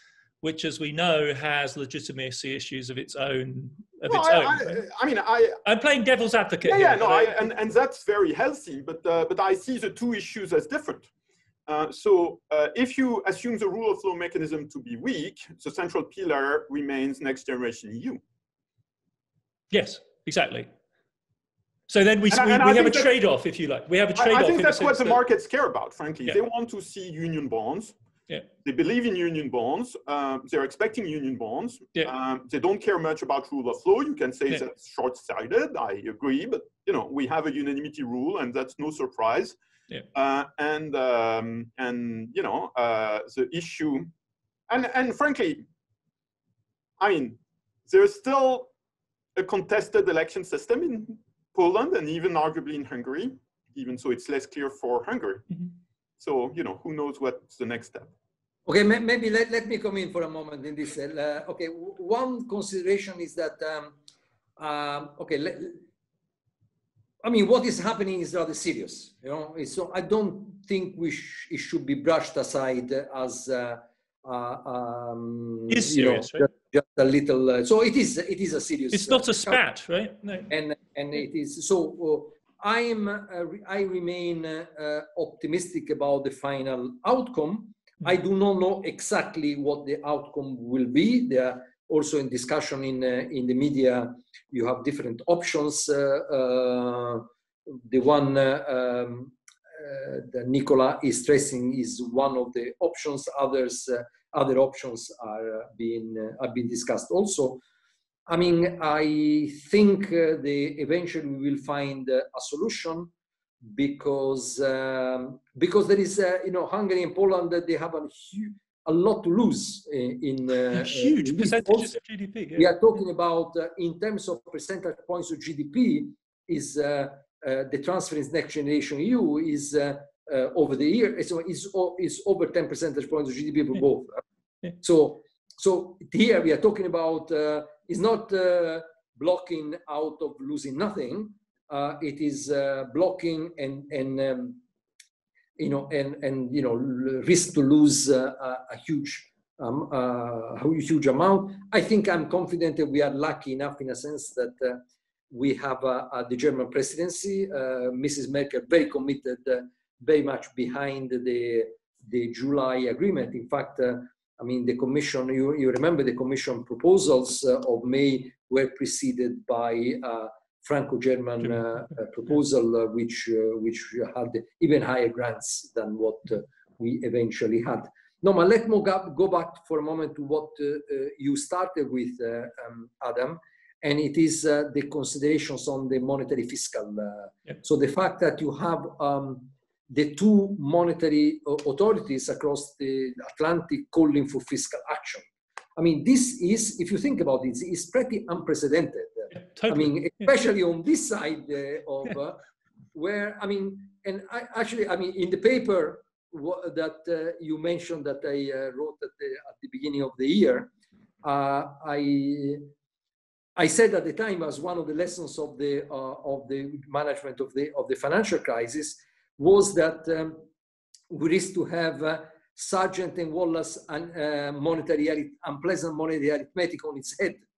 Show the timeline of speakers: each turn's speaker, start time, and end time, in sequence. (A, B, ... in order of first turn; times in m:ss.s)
0:00.4-0:04.8 A
0:04.1-0:05.6 B
0:05.6-0:07.4 A
0:06.7-0:11.1 B
0:11.7-0:18.2 B
0:19.7-0:20.7 A
0:21.9-0:25.2 A
0:22.3-0:23.1 B
0:24.2-0:28.0 B
0:28.6-0:39.6 B
0:40.1-0:44.1 B
0:44.7-0:45.7 B
0:47.0-0:48.7 B
0:49.4-0:58.1 B
0:58.7-1:04.0 C
1:04.6-1:05.8 C
1:07.2-1:19.6 C
1:15.7-1:16.4 A
1:18.9-1:20.5 A
1:20.5-1:47.6 C
1:48.3-1:53.1 C
1:53.6-2:02.0 C
2:00.7-2:02.7 A
2:02.5-2:14.2 C
2:14.8-2:24.6 C
2:25.6-3:30.7 C
3:19.4-3:19.9 A
3:31.2-3:32.7 C
3:33.6-3:40.4 C
3:41.1-3:47.4 C